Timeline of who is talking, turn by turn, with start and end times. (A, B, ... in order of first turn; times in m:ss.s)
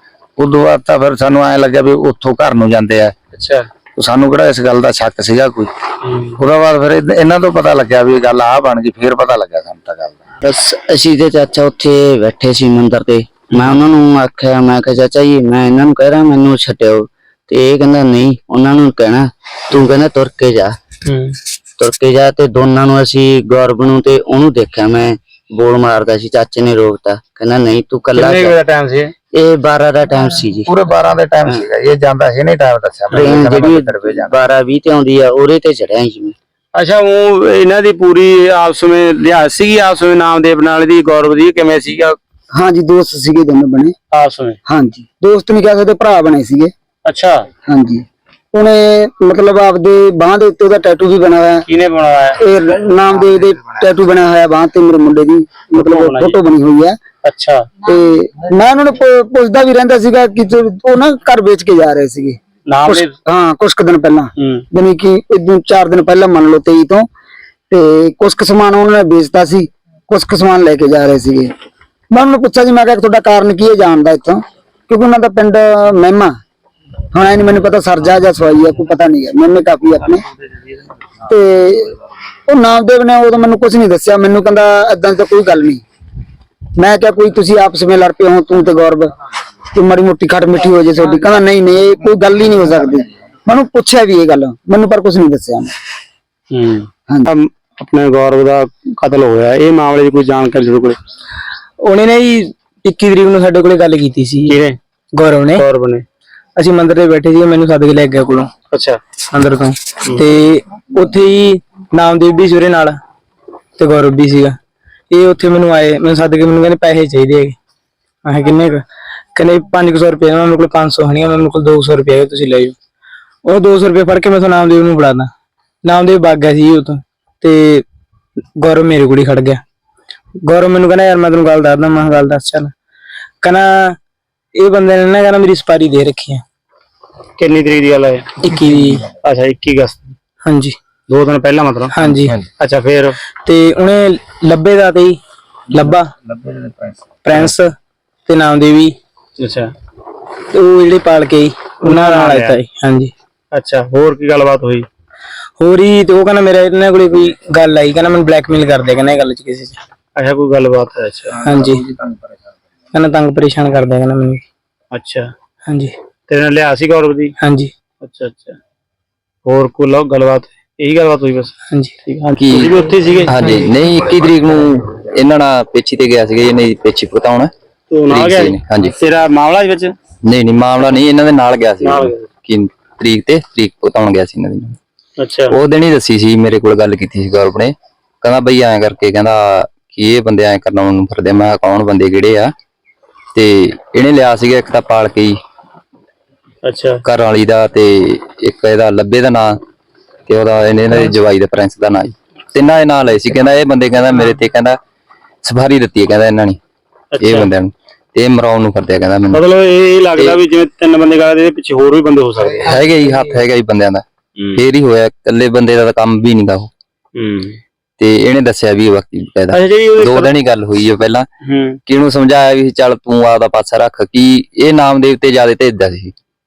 0:00.4-0:03.1 A
0:03.3-0:03.7 B
0:04.0-0:05.7 A
0:06.0-0:06.4 B
0:06.4-0:10.2 A
0:10.4-0:20.8 C
0:13.5-0:13.8 B
0:21.0-0:21.4 B
0:21.8-0:28.5 C
0:28.1-0:29.1 B
0:29.3-0:31.6 C
0:30.2-0:34.5 A
0:33.1-0:36.4 C
0:36.7-0:42.2 B
0:42.5-0:43.9 D
0:44.1-0:44.6 B
0:44.7-0:46.7 D
0:47.0-0:47.5 B
0:47.7-0:51.7 D
0:51.7-0:52.4 B
0:52.3-0:57.0 D
0:55.8-0:56.4 B
0:57.2-0:57.7 B
0:57.8-1:07.1 D
1:02.7-1:03.1 B
1:04.4-1:04.6 B
1:07.7-1:11.5 D
1:12.1-1:16.3 D
1:17.1-1:20.2 D
1:21.3-1:21.9 D
1:22.5-1:25.8 D
1:26.8-1:29.1 D
1:29.7-1:35.7 D
1:36.5-1:41.0 B
1:41.8-1:44.6 E
1:44.4-1:44.8 B
1:45.1-1:45.6 E
1:45.5-1:46.0 B
1:46.6-1:48.5 E
1:48.7-1:49.0 B
1:49.3-1:53.0 E
1:53.8-1:54.6 E
1:55.1-1:57.6 E
1:58.2-2:02.8 E
2:03.4-2:05.3 E
2:05.8-2:07.8 E
2:08.6-2:09.6 E
2:10.4-2:12.7 E
2:13.4-2:14.0 E
2:14.5-2:16.4 E
2:17.4-2:18.5 B
2:18.4-2:19.0 E
2:18.6-2:18.9 A
2:19.2-2:20.1 B
2:20.4-2:20.8 E
2:21.1-2:23.2 B
2:21.9-2:22.3 E
2:23.4-2:25.2 E
2:25.7-2:26.1 E
2:25.7-2:27.0 A
2:27.2-2:27.7 E
2:28.3-2:29.0 E
2:29.4-2:29.7 B
2:30.5-2:33.1 E
2:31.8-2:32.6 B
2:33.5-2:34.9 B
2:35.6-2:39.8 E
2:40.2-2:41.5 B
2:41.4-2:41.8 E
2:41.5-2:42.2 A
2:42.9-2:44.4 E
2:44.9-2:45.3 B
2:45.6-2:45.9 E
2:46.3-2:47.3 B
2:47.4-2:47.7 E
2:48.0-2:48.6 B
2:49.4-2:51.5 B
2:52.0-2:53.7 B
2:52.4-2:52.7 F
2:53.3-2:57.5 F
2:57.9-2:59.9 B
2:58.1-2:59.0 F
3:00.2-3:04.8 F
3:01.8-3:02.2 B
3:05.2-3:05.6 B
3:05.5-3:12.5 F
3:13.3-3:15.4 F
3:16.6-3:17.0 B
3:17.0-3:19.6 F
3:20.3-3:24.8 F
3:25.4-3:26.6 F
3:27.2-3:27.5 B
3:27.2-3:29.4 F
3:29.3-3:32.8 B
3:32.7-3:34.0 F
3:34.5-3:36.7 F
3:37.1-3:37.6 B
3:38.0-3:41.3 F
3:39.5-3:40.3 B
3:41.4-3:41.8 B
3:41.9-3:46.1 F